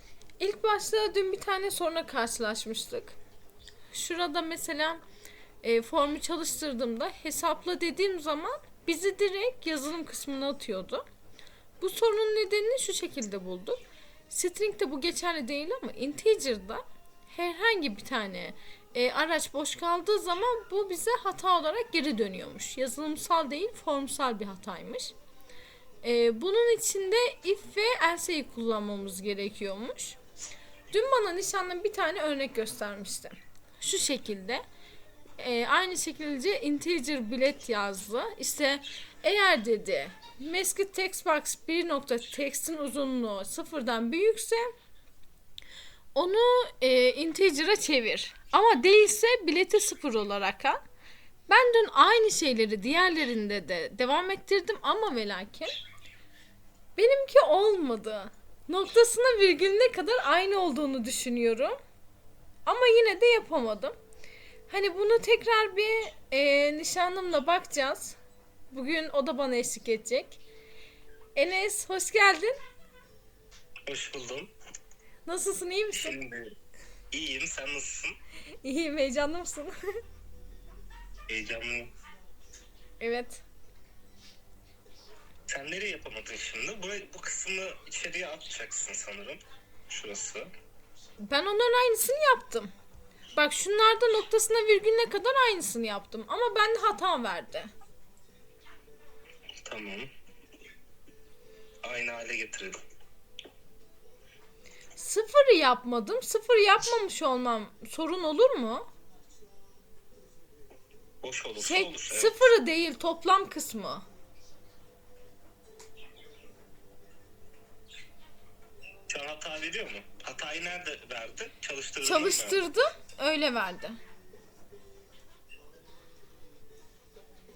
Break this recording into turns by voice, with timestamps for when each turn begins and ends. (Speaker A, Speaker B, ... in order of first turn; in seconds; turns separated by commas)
Speaker A: 0.4-3.2, Speaker A: 3.9-5.0, Speaker A: 5.6-11.0, Speaker A: 11.8-13.8, Speaker A: 14.3-25.1, Speaker A: 26.0-30.2, Speaker A: 30.9-34.6, Speaker A: 35.4-44.7, Speaker A: 46.1-50.8, Speaker A: 51.5-55.7, Speaker A: 57.0-61.8, Speaker A: 62.6-64.0, Speaker A: 64.7-68.2, Speaker A: 68.7-70.4, Speaker A: 71.3-72.5, Speaker B: 73.9-74.5, Speaker A: 75.3-76.2, Speaker B: 75.9-76.5, Speaker B: 77.1-78.2, Speaker A: 78.6-79.7, Speaker B: 81.3-81.9, Speaker A: 83.0-83.4, Speaker B: 85.5-90.5, Speaker A: 91.2-92.7, Speaker A: 93.3-97.7, Speaker B: 99.6-100.1, Speaker B: 101.8-102.8, Speaker A: 105.0-108.9, Speaker B: 111.2-112.4, Speaker A: 111.6-114.1, Speaker B: 119.1-122.6, Speaker A: 122.0-124.0